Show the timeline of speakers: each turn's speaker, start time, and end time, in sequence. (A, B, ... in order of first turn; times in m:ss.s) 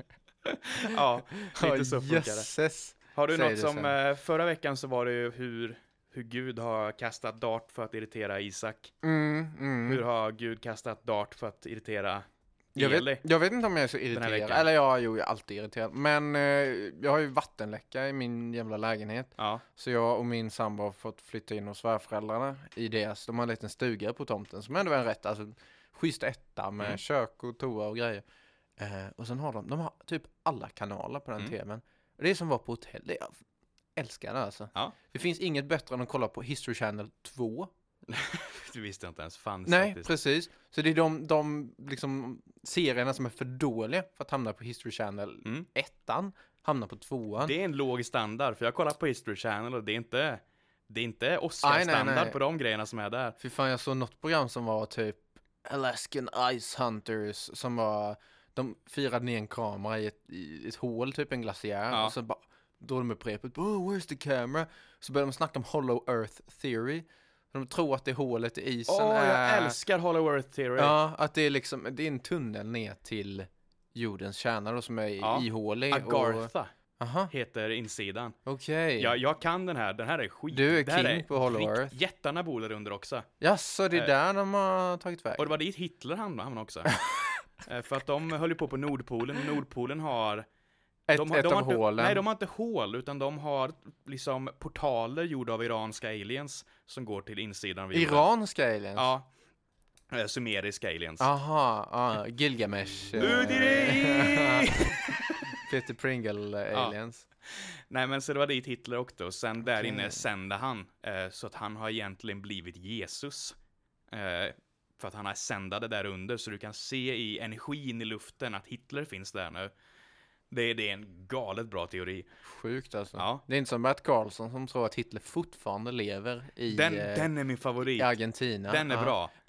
0:00.5-0:02.5 A
0:01.5-0:04.0 B
0:03.1-0:08.9 A
0:09.0-0:10.0 B
0:09.8-0:13.2 A
0:12.8-0:28.2 B
0:14.1-0:14.7 A
0:19.4-0:19.6 A
0:28.8-0:33.4 B
0:34.0-0:37.7 B
0:38.1-0:40.1 A
0:39.7-0:47.5 B
0:47.4-0:53.4 A
0:51.6-0:52.4 B
0:53.4-1:09.8 B
1:01.9-1:02.2 A
1:08.9-1:11.0 A
1:10.8-1:17.3 B
1:15.2-1:16.7 A
1:17.3-1:18.3 A
1:18.4-1:19.2 B
1:19.0-1:23.3 A
1:20.5-1:22.0 B
1:23.4-1:25.6 B
1:25.4-1:27.0 A
1:27.6-1:30.5 A
1:31.1-1:32.2 B
1:31.2-1:38.3 A
1:37.9-1:39.1 B
1:39.0-1:39.3 A
1:40.1-1:41.3 A
1:41.2-1:44.8 B
1:43.2-1:45.4 A
1:45.6-1:47.2 B
1:47.5-1:53.6 A
1:49.7-1:50.2 B
1:54.1-1:59.7 A
2:00.5-2:02.3 A
2:02.4-2:07.3 B
2:03.2-2:03.4 A
2:06.7-2:08.1 A
2:08.0-2:09.2 B
2:08.7-2:09.3 A